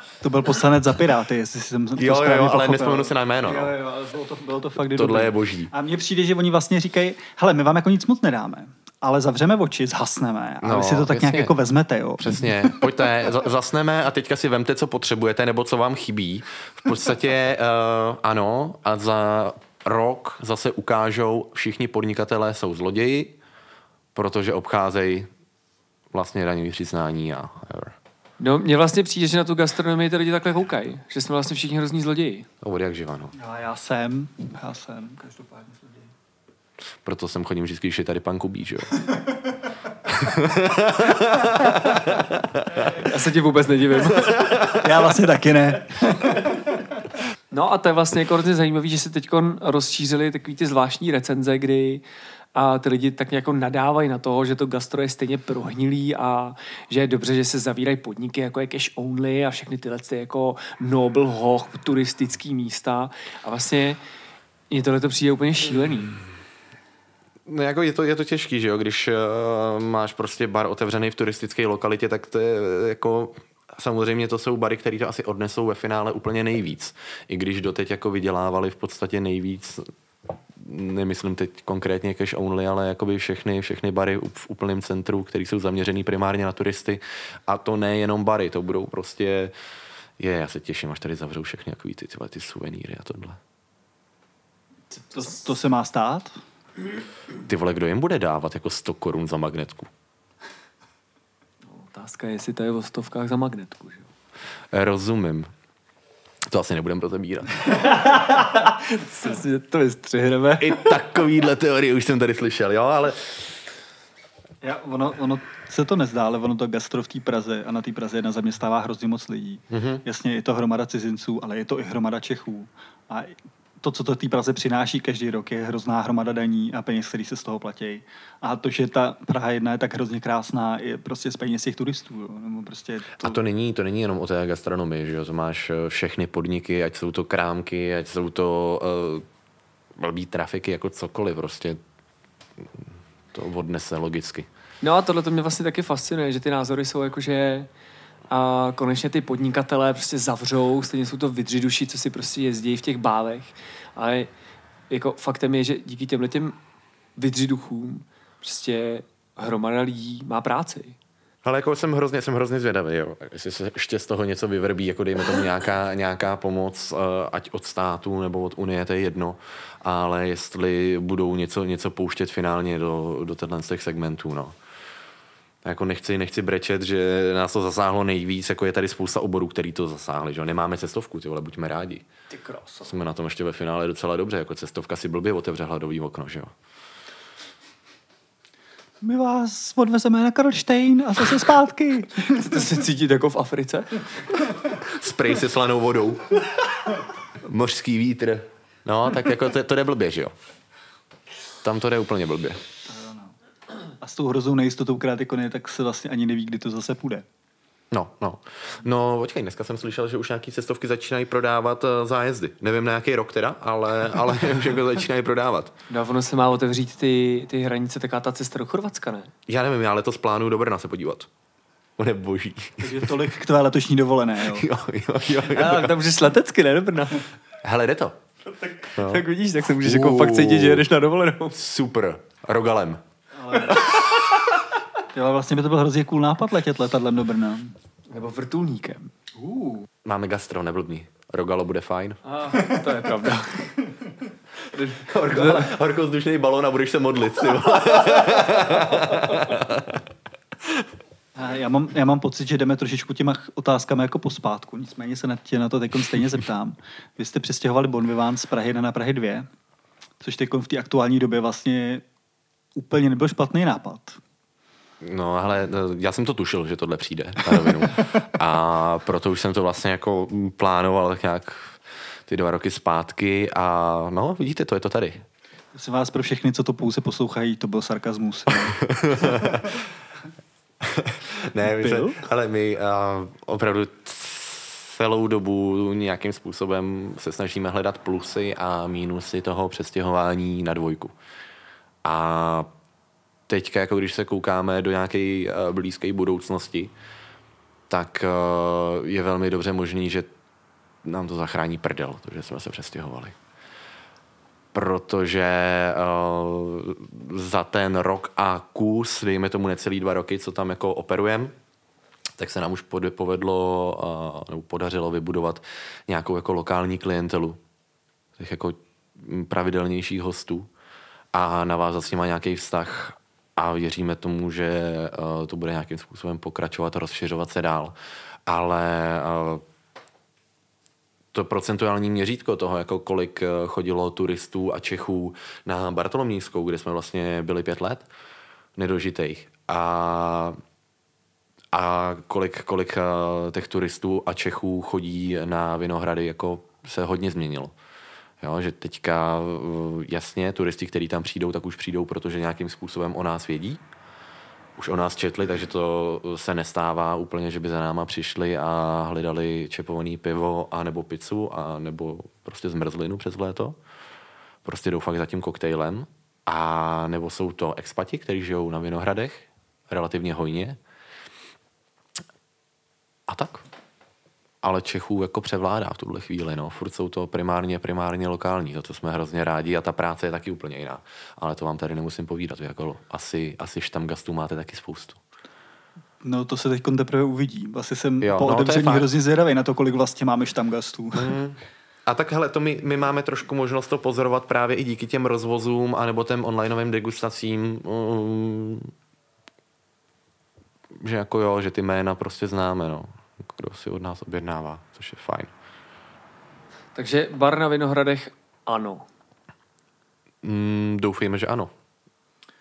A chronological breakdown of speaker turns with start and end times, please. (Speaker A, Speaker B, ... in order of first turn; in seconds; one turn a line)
Speaker A: 0.2-13.0
Speaker B: 1.9-3.7
Speaker B: 4.9-5.7
Speaker B: 10.6-11.5
Speaker B: 12.2-23.4
Speaker B: 24.1-25.3
Speaker B: 26.1-27.9
Speaker C: 28.4-32.5
Speaker B: 32.6-33.3
Speaker A: 33.4-36.1
Speaker B: 37.0-38.9
Speaker B: 40.1-42.9
Speaker C: 42.8-44.7
Speaker B: 44.4-44.7
Speaker A: 44.6-46.7
Speaker C: 47.5-52.0
Speaker C: 52.5-64.0
Speaker C: 64.7-66.2
Speaker B: 67.5-79.9
Speaker B: 80.5-89.5
Speaker B: 90.2-93.4
Speaker C: 94.9-95.4
Speaker A: 95.1-96.4
Speaker B: 97.4-99.9
Speaker C: 101.6-104.1
Speaker B: 104.7-105.5
Speaker B: 106.5-107.6
Speaker C: 107.7-110.9
Speaker B: 110.6-113.4
Speaker A: 114.6-133.4
Speaker B: 119.7-120.0
Speaker B: 133.2-139.2
Speaker B: 139.9-141.8
Speaker B: 142.6-144.5
Speaker C: 144.8-147.7
Speaker C: 148.3-154.3
Speaker C: 154.9-156.6
Speaker C: 157.2-161.0
Speaker B: 161.4-174.5
Speaker B: 175.6-182.1
Speaker C: 182.3-182.9
Speaker B: 182.8-186.5
Speaker A: 189.0-192.7
Speaker C: 192.2-194.4
Speaker B: 194.8-196.4
Speaker B: 197.3-200.3
Speaker B: 201.6-202.6
Speaker A: 202.8-203.3
Speaker A: 204.0-207.2
Speaker B: 207.9-215.7
Speaker C: 215.9-219.3
Speaker B: 219.5-221.3
Speaker B: 222.0-223.2
Speaker A: 222.8-224.7
Speaker B: 224.5-225.9
Speaker C: 225.4-227.2
Speaker B: 227.6-228.2
Speaker C: 228.6-231.6
Speaker B: 228.9-230.8
Speaker B: 231.5-233.0
Speaker A: 233.4-233.9
Speaker A: 235.1-237.7
Speaker C: 238.1-239.3
Speaker A: 239.4-239.8
Speaker B: 240.0-242.2
Speaker C: 242.2-243.8
Speaker C: 244.7-245.7
Speaker B: 245.0-250.1
Speaker A: 251.3-259.5
Speaker A: 260.2-262.0
Speaker A: 262.7-264.2
Speaker B: 265.0-275.2
Speaker A: 275.7-279.6
Speaker B: 278.5-279.8
Speaker B: 280.8-291.1
Speaker C: 281.6-282.2
Speaker B: 292.0-292.7
Speaker B: 293.5-296.9
Speaker B: 297.9-300.3
Speaker B: 301.0-303.4
Speaker B: 304.7-311.5
Speaker B: 312.4-317.6
Speaker B: 318.4-320.7
Speaker B: 321.3-327.9
Speaker B: 328.5-329.6
Speaker B: 331.3-338.1
Speaker B: 338.8-340.6
Speaker B: 341.7-347.7
Speaker B: 348.4-353.8
Speaker B: 354.8-363.8
Speaker B: 364.6-370.8
Speaker B: 373.3-373.6
Speaker B: 374.6-385.2
Speaker A: 386.2-391.3
Speaker B: 388.2-389.1
Speaker B: 391.1-398.9
Speaker B: 400.9-405.5
Speaker C: 406.9-409.1
Speaker B: 410.4-411.7